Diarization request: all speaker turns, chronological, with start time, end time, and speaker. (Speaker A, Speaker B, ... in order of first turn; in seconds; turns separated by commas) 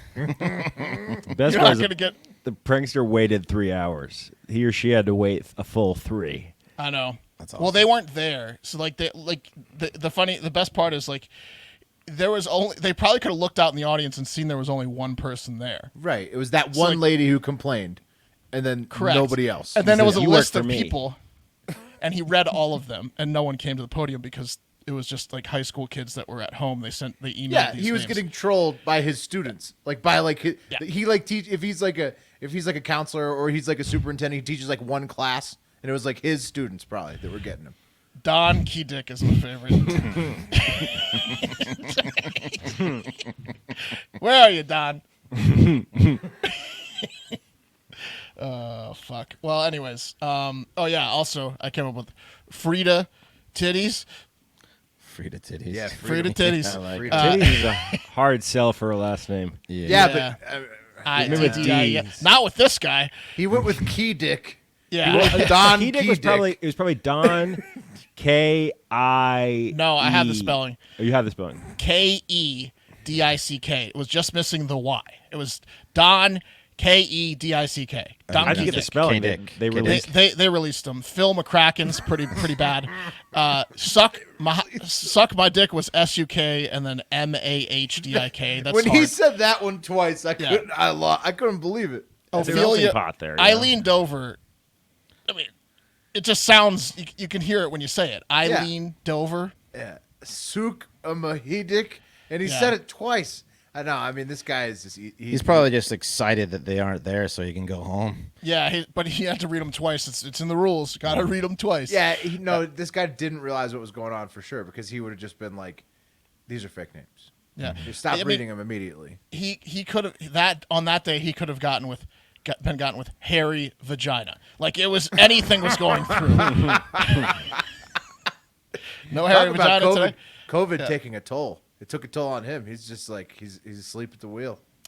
Speaker A: 0.2-2.2, Speaker B: 1.3-1.9, Speaker B: 2.4-6.5, Speaker A: 6.8-11.3, Speaker C: 7.4-7.8, Speaker A: 12.1-15.9, Speaker D: 16.0-18.0, Speaker A: 16.7-17.0, Speaker D: 18.5-20.0, Speaker A: 18.9-21.2, Speaker B: 19.8-21.0, Speaker A: 22.0-28.2, Speaker D: 27.5-37.8, Speaker A: 38.2-45.0, Speaker B: 45.5-46.1, Speaker A: 46.4-47.4, Speaker A: 48.4-54.1, Speaker C: 55.0-57.1, Speaker D: 55.7-57.6, Speaker A: 56.0-58.0, Speaker B: 57.1-59.6, Speaker C: 59.7-60.1, Speaker D: 59.9-61.9, Speaker A: 59.9-60.4, Speaker A: 61.0-63.1, Speaker B: 61.2-62.3, Speaker D: 63.4-66.5, Speaker A: 64.9-65.7, Speaker B: 65.0-67.6, Speaker B: 68.2-71.7, Speaker A: 69.7-70.8, Speaker A: 71.8-79.0, Speaker C: 78.3-80.1, Speaker B: 78.4-80.1, Speaker A: 79.8-89.2, Speaker D: 88.6-92.7, Speaker A: 90.4-90.7, Speaker A: 92.3-94.4, Speaker B: 92.4-93.7, Speaker A: 96.1-99.5, Speaker D: 98.4-98.7, Speaker D: 99.7-105.7, Speaker A: 102.4-102.8, Speaker C: 105.3-108.3, Speaker A: 108.4-112.6, Speaker D: 111.9-115.8, Speaker D: 116.5-119.2, Speaker A: 117.6-118.5, Speaker A: 119.3-127.3, Speaker D: 126.4-127.4, Speaker A: 129.1-130.2, Speaker D: 129.3-134.6